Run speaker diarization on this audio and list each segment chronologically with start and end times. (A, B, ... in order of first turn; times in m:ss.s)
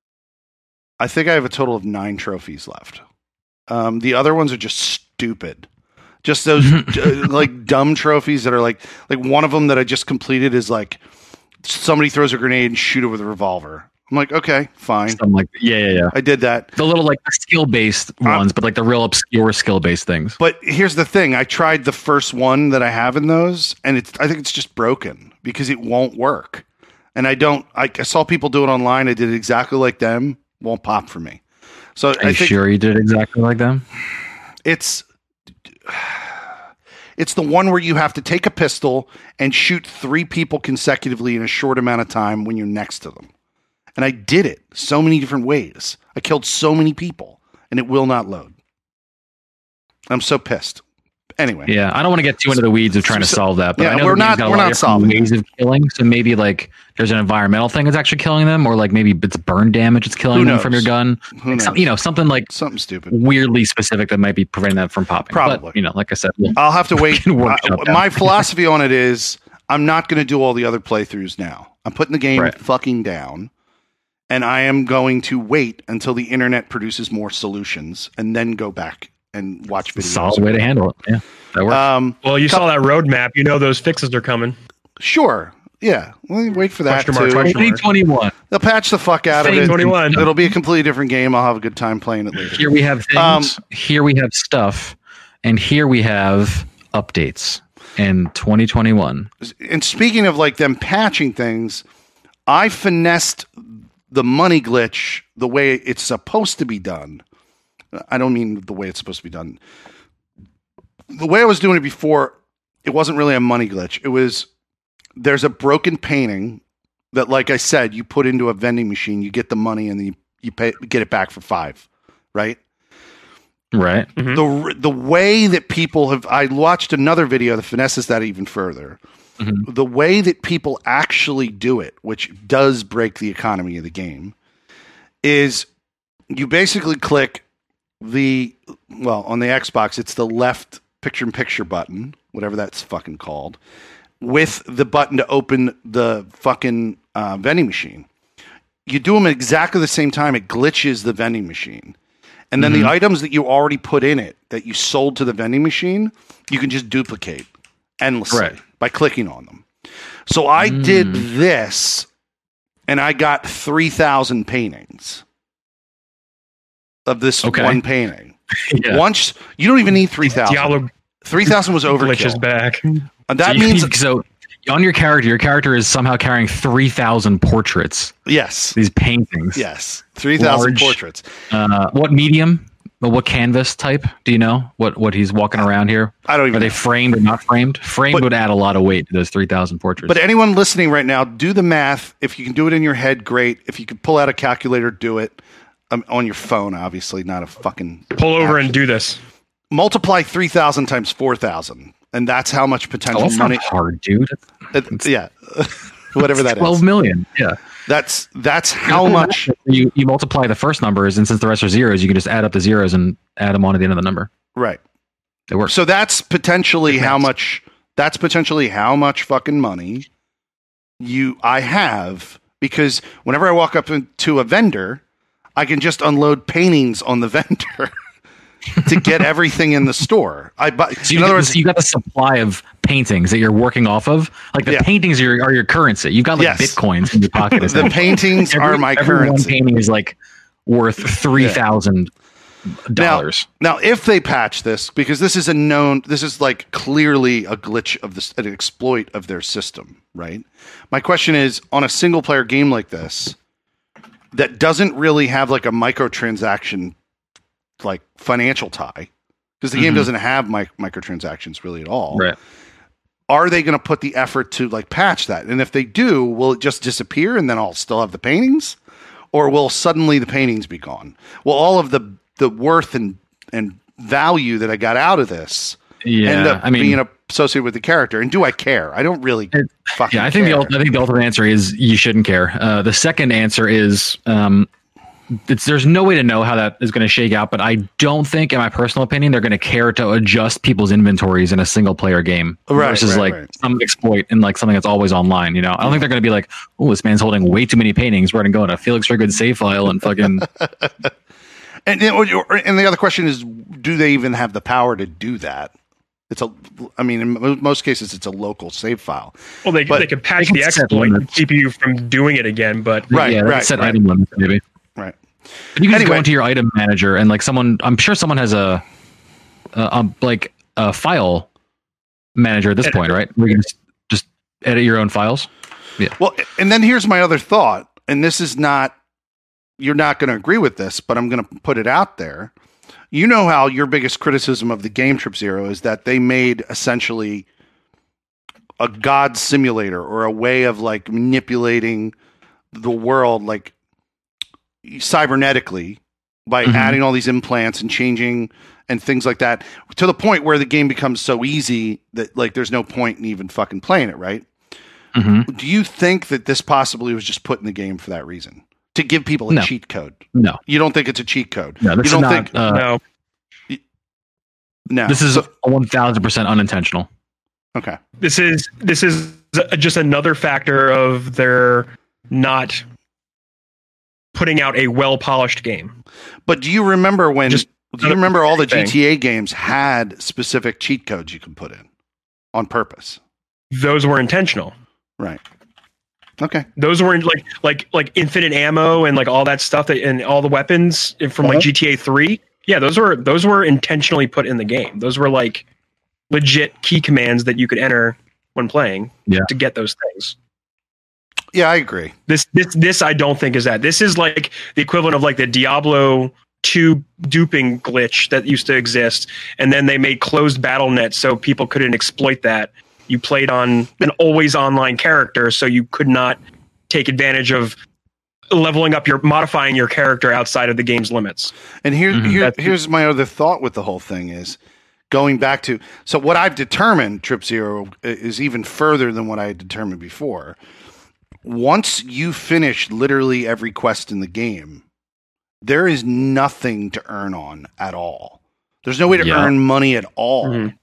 0:01.0-0:03.0 A
0:03.7-0:05.7 A
0:06.2-0:11.0 A
0:06.7-0:07.0 B
0:11.6-0:15.2 A
0:15.1-0:16.2 B
0:16.1-0:16.7 A
0:16.8-0:20.4 B
0:20.4-0:31.4 A
0:32.0-0:32.6 A
0:32.2-0:33.8 B
0:34.6-0:35.0 A
0:35.8-0:36.6 A
0:37.2-0:43.3 A
0:44.0-0:48.5 A
0:50.1-0:50.8 A
0:51.4-0:51.7 A
0:51.7-1:02.5 B
0:52.5-0:55.3 A
1:00.3-1:01.9 A
1:02.5-1:03.1 A
1:03.1-1:08.4 B
1:05.3-1:05.8 A
1:06.6-1:13.5 A
1:14.3-1:20.7 A
1:20.0-1:21.8 B
1:21.7-1:22.6 A
1:22.2-1:24.6 C
1:25.0-1:27.6 A
1:26.9-1:27.8 C
1:27.4-1:28.3 B
1:28.5-1:33.6 A
1:29.4-1:30.2 C
1:29.4-1:30.3 B
1:32.5-1:39.3 B
1:39.4-1:41.8 A
1:42.5-1:47.2 A
1:47.9-1:49.6 A
1:51.1-1:54.5 A
1:55.2-2:02.6 A
2:03.7-2:04.1 B
2:04.2-2:04.4 C
2:04.3-2:09.0 A
2:09.4-2:09.7 B
2:09.7-2:14.4 A
2:15.2-2:15.7 A
2:16.3-2:17.4 A
2:18.0-2:23.6 A
2:24.2-2:28.1 A
2:28.9-2:32.0 A
2:32.5-2:37.5 A
2:32.6-2:32.9 B
2:38.0-2:39.7 A
2:40.3-2:42.1 A
2:40.6-2:41.2 B
2:42.9-2:45.2 A
2:47.1-2:52.4 A
2:47.4-2:47.8 B
2:48.6-2:49.0 B
2:50.4-2:50.9 C
2:51.9-2:53.0 C
2:53.3-2:53.9 A
2:53.4-2:58.1 B
2:58.3-2:58.8 A
2:58.8-2:59.6 B
2:59.6-3:01.3 A
3:00.4-3:01.0 B
3:01.5-3:10.2 B
3:06.3-3:06.8 A
3:10.1-3:18.8 A
3:18.2-3:19.2 C
3:19.7-3:23.6 A
3:23.1-3:25.1 B
3:24.7-3:26.8 A
3:26.4-3:27.6 B
3:27.9-3:29.5 A
3:28.9-3:34.3 B
3:34.6-3:34.8 A
3:35.7-3:40.1 A
3:41.0-3:45.0 A
3:45.6-3:47.9 A
3:48.8-3:51.6 A
3:51.0-4:02.1 B
3:56.4-3:56.8 A
3:57.6-3:59.6 A
4:02.9-4:03.5 B
4:03.0-4:13.4 A
4:14.3-4:17.0 A
4:17.8-4:19.1 A
4:19.6-4:22.3 A
4:19.8-4:20.1 B
4:23.3-4:28.8 A
4:29.3-4:40.8 A
4:36.0-4:37.0 B
4:39.5-4:44.7 B
4:45.4-5:00.5 B
4:52.7-4:53.5 A
4:55.8-4:56.1 A
5:00.6-5:01.1 A
5:01.9-5:05.7 A
5:06.3-5:10.1 A
5:09.6-5:13.2 C
5:10.4-5:11.4 B
5:13.1-5:14.6 B
5:13.1-5:14.0 A
5:15.0-5:16.2 A
5:15.8-5:18.8 B
5:19.7-5:21.5 B
5:22.4-5:25.5 B
5:22.8-5:23.1 C
5:26.2-5:29.0 A
5:29.8-5:32.5 A
5:33.1-5:37.5 A
5:38.8-5:42.2 A
5:42.7-5:43.7 A
5:44.8-5:54.5 A
5:46.6-5:47.0 B
5:55.2-5:55.5 B
5:55.5-6:02.5 A
6:00.3-6:00.6 B
6:01.8-6:02.9 B
6:02.7-6:03.0 C
6:04.9-6:05.5 A
6:05.1-6:07.1 B
6:07.8-6:08.0 A
6:08.2-6:12.8 C
6:14.3-6:15.9 C
6:16.5-6:21.9 A
6:17.5-6:18.9 C
6:22.5-6:23.2 A
6:23.7-6:24.7 C
6:26.4-6:26.7 A
6:26.8-6:35.6 C
6:31.4-6:31.7 A
6:36.3-6:40.4 C
6:41.5-6:42.1 A
6:42.3-6:57.8 C
6:58.5-7:01.5 C
7:01.8-7:04.6 A
7:02.1-7:02.4 B
7:02.4-7:02.7 C
7:05.1-7:10.6 A
7:11.4-7:14.8 A
7:15.6-7:20.7 A
7:19.2-7:19.5 B
7:20.4-7:20.7 C